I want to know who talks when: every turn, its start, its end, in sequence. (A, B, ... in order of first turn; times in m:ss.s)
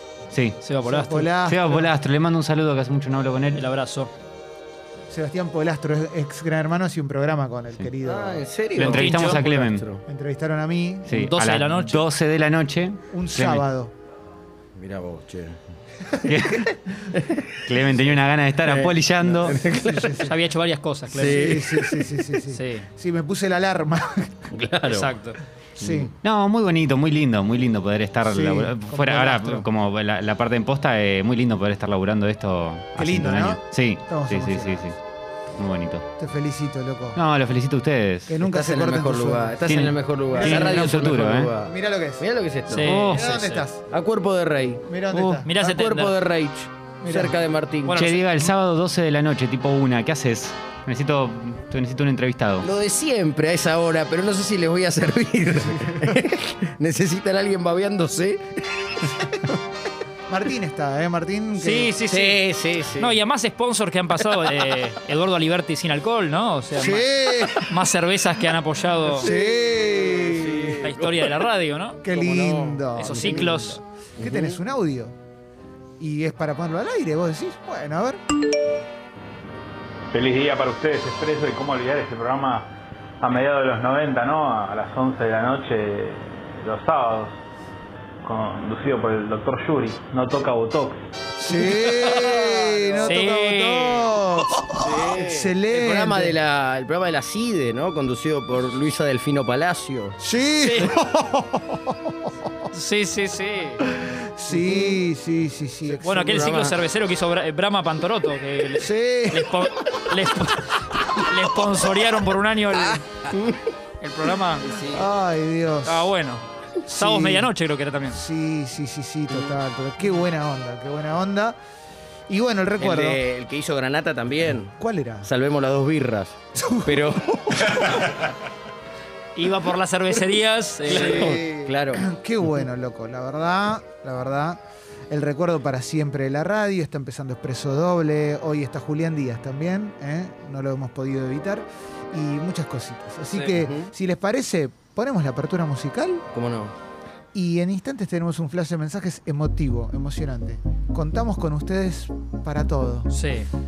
0:00.3-0:00.6 A
0:00.6-0:01.3 B
0:00.8-0:01.9 C
0:01.4-0:03.7 A
0:03.5-0:04.1 B
0:05.1-0:11.2 C
0:08.0-0:10.0 D
0:08.7-0:09.8 A
0:08.9-0:09.4 B
0:11.0-0:13.6 A
0:11.1-0:12.0 B
0:13.1-0:13.9 C
0:14.8-0:15.6 D
0:16.2-0:17.1 C
0:16.2-0:16.7 A
0:17.5-0:19.6 A
0:18.6-0:20.2 D
0:19.4-0:20.4 C
0:20.2-0:21.7 B
0:21.1-0:24.5 C
0:21.1-0:22.1 D
0:22.5-0:22.9 B
0:24.5-0:25.1 D
0:24.9-0:25.4 B
0:25.8-0:26.1 C
0:26.2-0:35.0 A
0:28.2-0:29.7 C
0:33.0-0:34.9 C
0:35.6-0:36.0 A
0:36.2-0:37.2 C
0:37.1-0:38.4 A
0:38.3-0:41.0 C
0:38.4-0:43.1 D
0:39.6-0:41.5 A
0:41.6-0:42.2 C
0:42.7-0:43.6 B
0:42.8-0:43.2 A
0:43.0-0:43.8 C
0:43.9-0:44.8 D
0:44.8-0:45.6 C
0:45.1-0:45.4 A
0:45.4-0:46.2 B
0:45.6-0:48.0 D
0:47.0-0:47.4 C
0:47.8-0:48.5 B
0:47.9-0:52.7 A
0:52.6-0:59.0 D
0:59.1-0:59.6 C
1:00.3-1:01.9 C
1:01.5-1:09.3 B
1:02.1-1:03.2 D
1:06.7-1:07.7 C
1:09.1-1:10.8 C
1:09.1-1:11.4 D
1:10.8-1:12.0 B
1:12.0-1:15.1 C
1:12.1-1:13.6 D
1:12.9-1:13.8 B
1:14.2-1:14.6 D
1:16.0-1:18.2 C
1:20.1-1:22.7 E
1:23.2-1:27.3 E
1:28.2-1:31.0 E
1:31.4-1:36.4 C
1:31.6-1:32.1 B
1:31.8-1:33.2 D
1:33.0-1:34.2 B
1:34.8-1:40.2 D
1:40.2-1:42.1 C
1:40.6-1:40.9 B
1:42.7-1:43.8 B
1:43.8-1:46.5 C
1:44.5-1:45.0 D
1:46.0-1:53.3 B
1:46.2-1:46.8 D
1:48.7-1:49.5 C
1:53.0-1:53.7 D
1:54.0-1:54.8 B
1:54.6-1:55.0 D
1:54.8-1:56.1 C
1:55.8-1:58.2 B
1:56.8-1:57.5 C
1:58.1-2:01.6 C
2:02.3-2:03.2 C
2:02.8-2:07.4 D
2:04.8-2:05.3 C
2:06.5-2:08.2 C
2:09.3-2:11.4 B
2:10.8-2:12.0 D
2:10.9-2:26.2 C
2:23.3-2:23.9 D
2:26.3-2:26.7 D
2:27.3-2:33.1 C
2:33.1-2:33.5 B